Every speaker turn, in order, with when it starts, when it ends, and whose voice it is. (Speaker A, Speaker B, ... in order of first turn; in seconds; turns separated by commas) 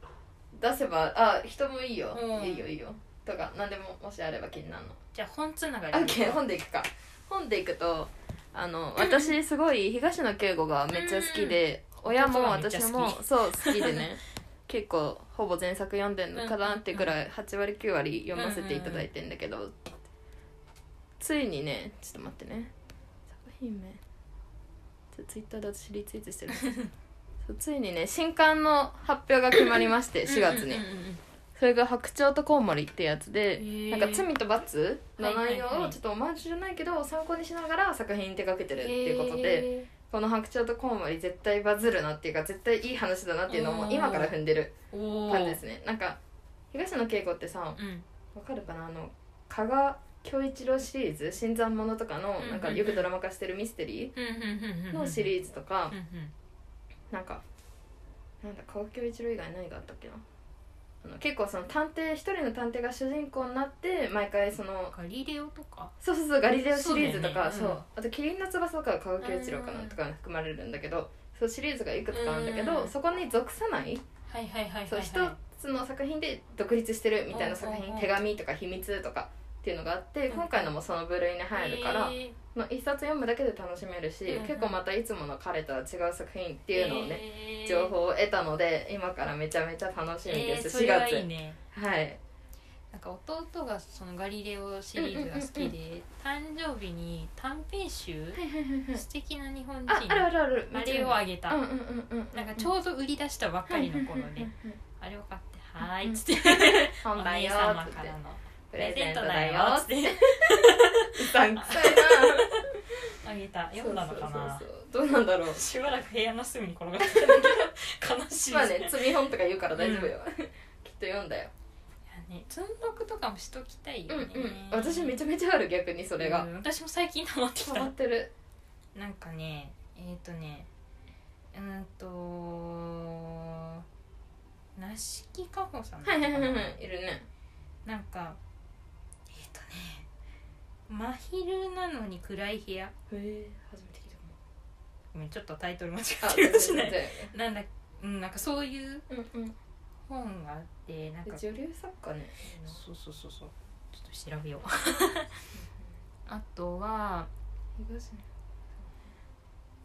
Speaker A: 0.5-5.0, Speaker B: 2.1-2.7, Speaker B: 5.1-6.4, Speaker A: 5.9-20.0, Speaker B: 9.0-9.3, Speaker B: 10.9-14.0, Speaker B: 16.3-17.1, Speaker B: 18.3-19.1, Speaker A: 21.2-22.7, Speaker A: 23.3-24.0, Speaker A: 25.1-26.7, Speaker B: 26.5-26.9, Speaker A: 27.4-30.8, Speaker B: 30.2-31.2, Speaker A: 31.6-44.7, Speaker B: 33.6-34.3, Speaker B: 35.2-36.0, Speaker B: 38.8-39.9, Speaker B: 43.5-44.3, Speaker B: 44.9-45.6, Speaker A: 45.3-46.2, Speaker A: 46.7-47.8, Speaker B: 47.8-48.0, Speaker A: 48.3-54.1, Speaker B: 52.4-53.1, Speaker B: 54.1-55.3, Speaker A: 54.9-55.9, Speaker B: 55.9-56.3, Speaker A: 57.1-57.4, Speaker A: 58.4-60.2, Speaker A: 61.0-64.9, Speaker B: 64.9-65.9, Speaker A: 66.0-74.0, Speaker B: 66.7-67.8, Speaker B: 69.2-70.0, Speaker B: 72.1-72.9, Speaker B: 74.3-75.4, Speaker A: 74.9-92.2, Speaker B: 77.3-78.2, Speaker B: 80.3-80.7, Speaker B: 81.5-82.4, Speaker B: 84.3-84.8, Speaker B: 86.7-87.9, Speaker B: 90.2-91.6, Speaker B: 92.9-101.6, Speaker A: 95.0-95.7, Speaker A: 98.3-99.0, Speaker A: 99.9-102.7, Speaker B: 102.3-114.7, Speaker A: 103.7-104.8, Speaker A: 105.8-108.2, Speaker A: 108.7-113.1, Speaker A: 113.8-115.6, Speaker B: 115.5-119.2, Speaker A: 117.0-117.7, Speaker A: 118.5-121.5, Speaker B: 119.8-120.1, Speaker B: 122.1-125.2, Speaker A: 124.1-126.5, Speaker B: 126.2-127.9, Speaker A: 127.6-128.3, Speaker B: 128.9-130.7, Speaker B: 131.5-133.8, Speaker B: 134.8-136.8, Speaker A: 136.0-137.2, Speaker B: 137.8-138.4, Speaker B: 139.3-140.1, Speaker B: 140.9-142.9, Speaker A: 143.1-144.4, Speaker B: 145.1-149.1, Speaker A: 146.2-147.3, Speaker A: 149.1-149.5, Speaker B: 150.1-151.4, Speaker A: 151.2-152.8, Speaker B: 152.6-155.4, Speaker A: 155.5-155.9, Speaker B: 156.3-157.3, Speaker A: 157.8-158.2, Speaker A: 158.8-159.1